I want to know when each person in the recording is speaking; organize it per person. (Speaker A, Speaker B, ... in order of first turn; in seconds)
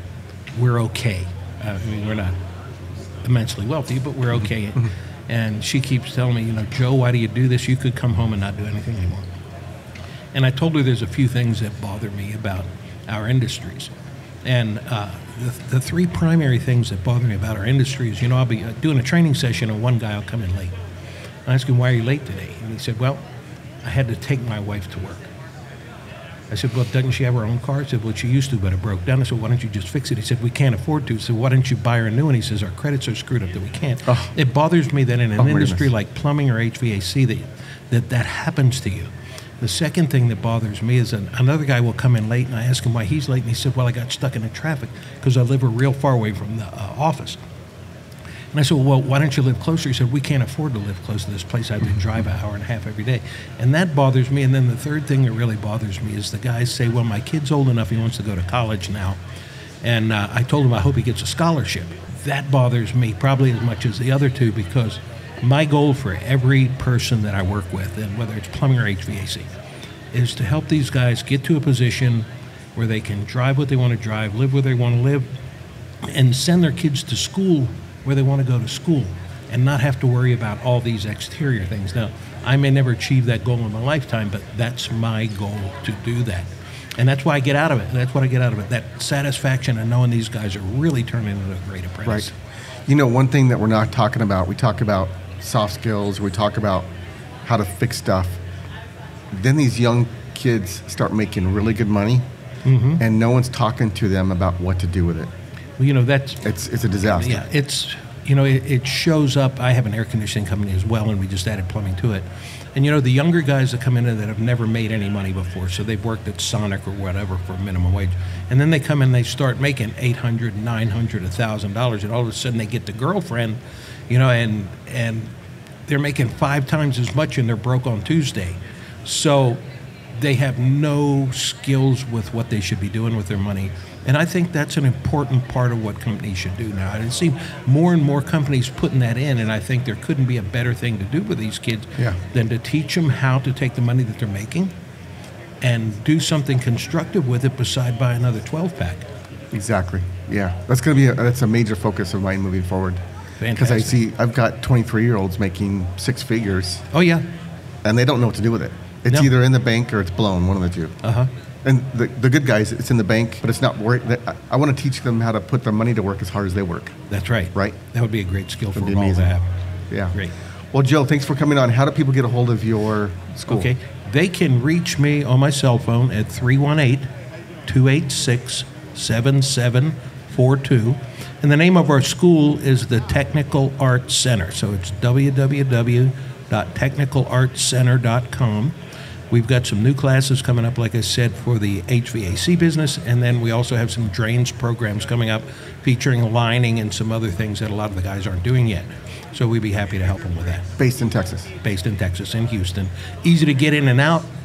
Speaker A: 0.5-2.4, 3.2-9.3, 10.3-13.9, 14.4-20.8, 21.5-23.2, 23.8-25.3, 26.5-47.4, 48.5-59.2, 59.8-69.5, 70.1-75.3, 76.0-92.3, 102.7-103.0, 105.8-125.3, 125.9-129.6, 130.1-144.7, 145.6-149.1, 153.4-154.0, 156.9-157.3, 161.0-161.3, 167.1-169.5, 173.5-177.1, 177.7-188.8, 189.3-200.7, 201.6-204.3
Speaker B: 34.1-34.3, 35.4-35.9, 92.0-92.3, 92.9-96.9, 97.4-98.4, 99.3-102.2, 103.0-105.3, 106.4-107.4, 149.5-153.0, 153.6-156.9, 157.8-160.9, 161.6-166.9, 168.7-169.3, 169.9-170.2, 170.7-173.7, 200.8-201.5